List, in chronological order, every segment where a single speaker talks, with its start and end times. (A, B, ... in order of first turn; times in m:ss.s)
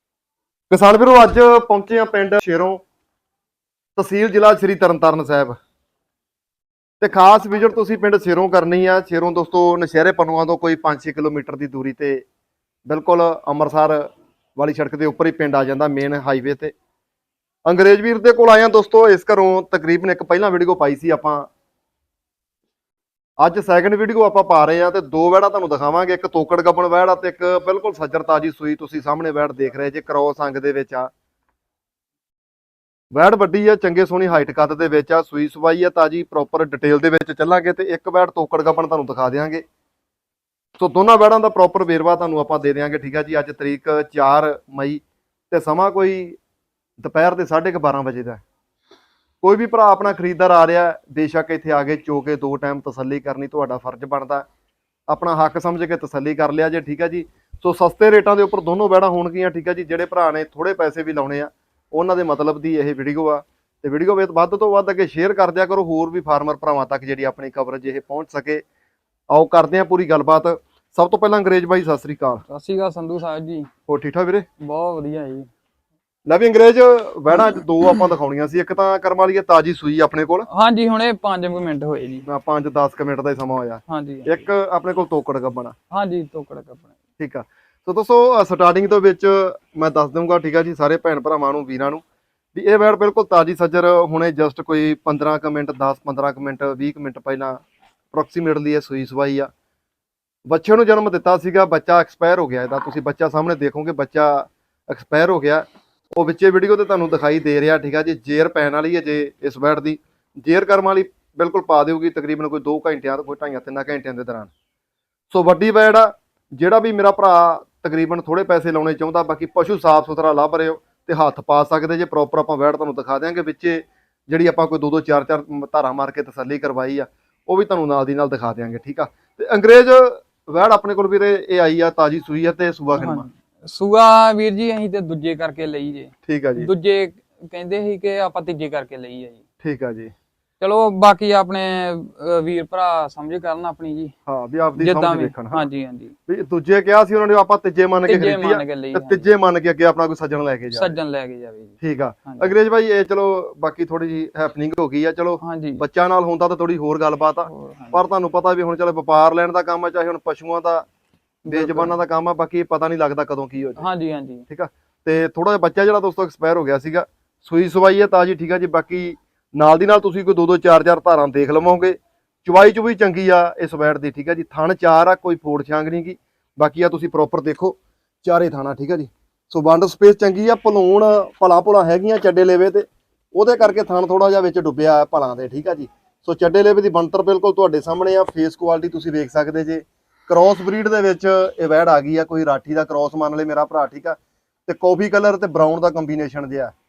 0:00.7-0:02.8 A
0:04.0-0:05.6 A
0:07.0-0:12.2 A
0:12.9-0:16.7 A
0:17.7-0:21.5 A
0:23.4-0:31.1 A
0:33.1-0:39.6 A
0:40.8-0:46.4 A
0:47.0-0:48.4 A
0:49.4-0:54.5 A
0:55.1-1:08.6 A
1:09.3-1:12.4 A
1:12.5-1:13.7 B
1:13.9-1:14.5 A
1:14.6-1:15.5 B
1:16.3-1:20.5 A
1:20.5-1:22.3 B
1:22.3-1:25.8 A
1:23.9-1:24.5 B
1:25.9-1:26.9 B
1:27.2-1:32.0 A
1:32.5-1:37.6 A
1:38.1-1:39.5 A
1:40.5-1:54.5 A
1:55.3-2:13.3 A
2:13.0-2:19.4 B
2:16.3-2:16.7 A
2:19.6-2:20.1 A
2:20.6-2:24.1 B
2:24.3-2:25.6 A
2:24.8-2:26.2 B
2:26.3-2:30.9 A
2:28.0-2:29.3 B
2:30.7-2:32.5 B
2:31.8-2:40.9 A
2:35.4-2:35.8 B
2:37.5-2:38.0 B
2:41.4-2:41.9 B
2:41.5-2:43.8 A
2:43.8-2:44.4 B
2:44.5-3:16.7 A